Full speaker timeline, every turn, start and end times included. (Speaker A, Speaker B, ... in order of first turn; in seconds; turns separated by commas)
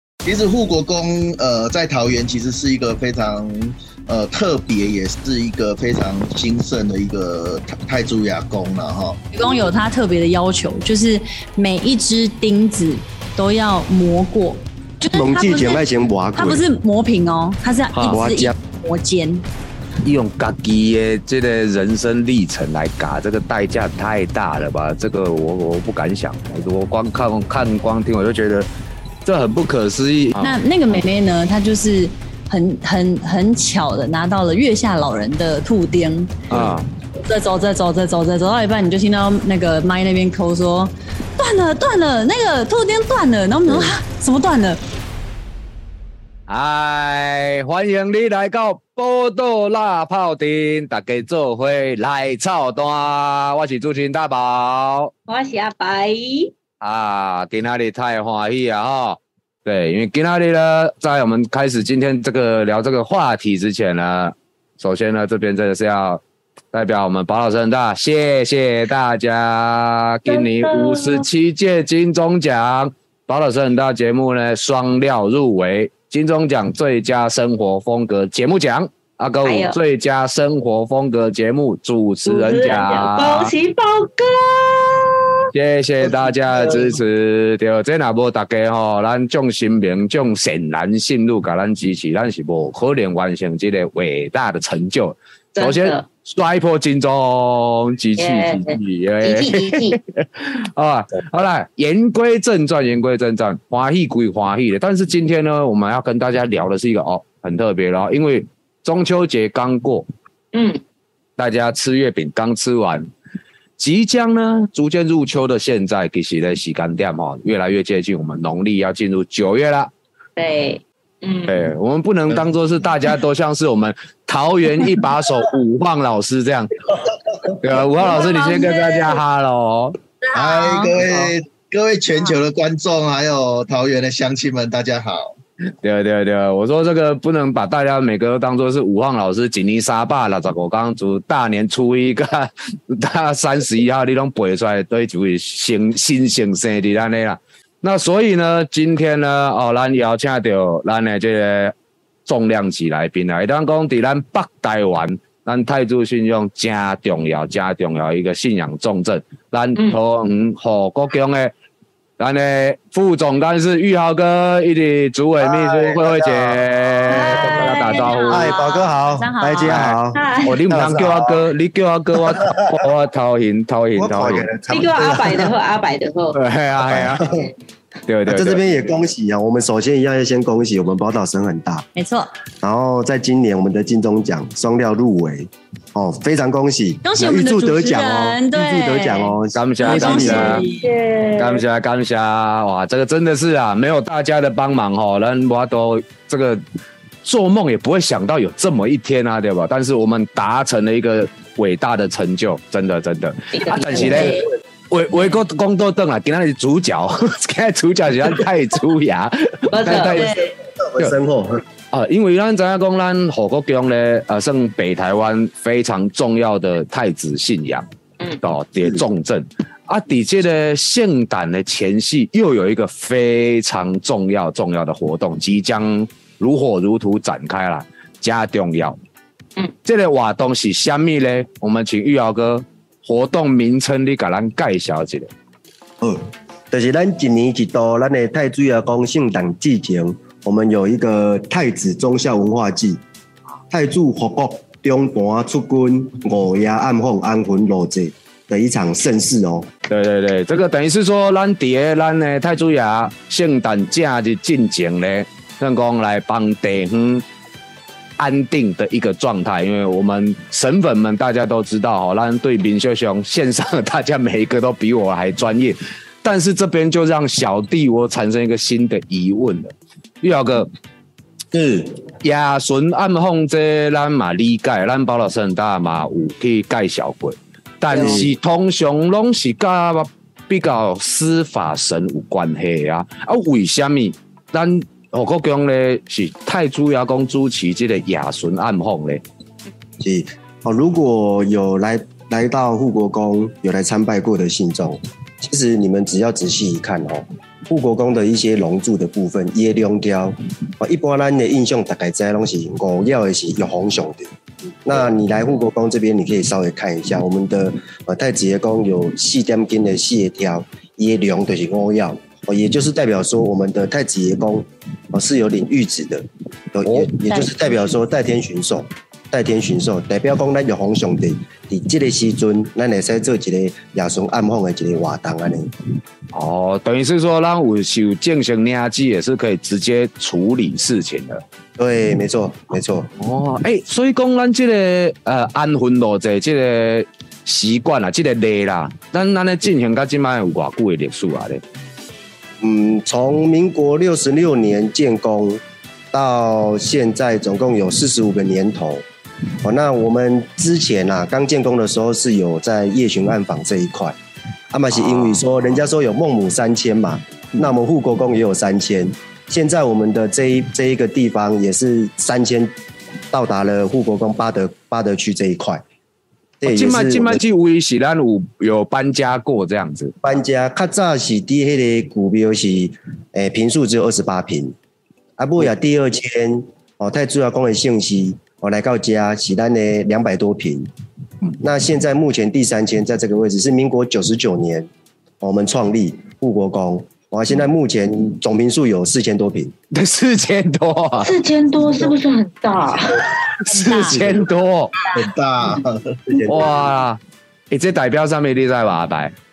Speaker A: 0.2-9.2, Speaker B: 9.3-15.8, Speaker C: 15.1-16.6, Speaker B: 16.4-19.4, Speaker C: 18.0-18.6, Speaker D: 20.0-28.7, Speaker D: 29.2-30.6, Speaker B: 30.4-36.3, Speaker D: 36.5-36.9, Speaker C: 36.5-36.8, Speaker B: 37.2-44.8, Speaker D: 46.5-55.1, Speaker E: 55.3-56.5, Speaker D: 56.8-66.2, Speaker D: 66.7-83.5, Speaker E: 70.3-71.2, Speaker E: 79.4-79.8, Speaker E: 82.2-85.5, Speaker D: 85.5-110.0, Speaker E: 86.0-87.0, Speaker E: 95.5-96.0, Speaker E: 98.2-100.0, Speaker E: 110.5-110.8, Speaker D: 111.4-113.1, Speaker D: 113.8-119.9, Speaker E: 120.4-121.7, Speaker D: 121.5-126.8, Speaker D: 127.6-130.0, Speaker E: 128.2-129.0, Speaker A: 130.3-135.3, Speaker B: 130.3-130.9, Speaker D: 135.8-151.7, Speaker D: 152.2-161.5, Speaker D: 162.2-168.5, Speaker C: 165.4-167.8, Speaker E: 167.1-168.5, Speaker B: 167.8-169.8, Speaker C: 168.3-171.4, Speaker D: 169.6-174.5, Speaker E: 170.1-170.6, Speaker C: 172.3-172.8, Speaker C: 173.9-175.5, Speaker E: 174.7-176.4, Speaker D: 176.3-177.2, Speaker C: 176.8-177.4, Speaker D: 178.1-178.6, Speaker C: 178.3-181.8, Speaker B: 181.9-182.3, Speaker C: 182.6-190.6, Speaker B: 187.0-190.9, Speaker D: 189.5-190.6, Speaker E: 189.9-191.6, Speaker D: 191.4-196.6, Speaker D: 197.2-210.3, Speaker E: 203.5-204.4, Speaker C: 203.9-204.4, Speaker E: 209.7-210.4, Speaker C: 210.1-211.6, Speaker D: 211.9-217.8, Speaker D: 218.4-229.0, Speaker D: 229.8-235.3, Speaker C: 236.0-243.0, Speaker C: 243.7-249.7, Speaker D: 249.9-257.2, Speaker D: 258.2-270.7, Speaker C: 271.5-271.9, Speaker D: 272.2-289.2, Speaker C: 277.9-278.3, Speaker C: 290.0-304.3, Speaker C: 304.8-325.7, Speaker D: 316.8-317.1, Speaker B: 317.3-317.7, Speaker D: 326.3-331.4, Speaker C: 331.8-333.1, Speaker D: 333.2-341.6, Speaker C: 342.6-349.0, Speaker C: 349.6-354.2, Speaker C: 354.7-362.8, Speaker D: 354.9-355.4, Speaker C: 363.3-365.8, Speaker C: 366.6-367.4, Speaker D: 366.6-370.1, Speaker C: 370.2-374.7, Speaker C: 375.4-380.9, Speaker C: 381.6-384.9, Speaker C: 385.4-389.7, Speaker D: 389.9-391.3, Speaker E: 391.2-393.2, Speaker B: 393.7-394.2, Speaker D: 393.7-394.9, Speaker A: 395.1-396.2, Speaker C: 396.3-396.8, Speaker D: 396.4-399.3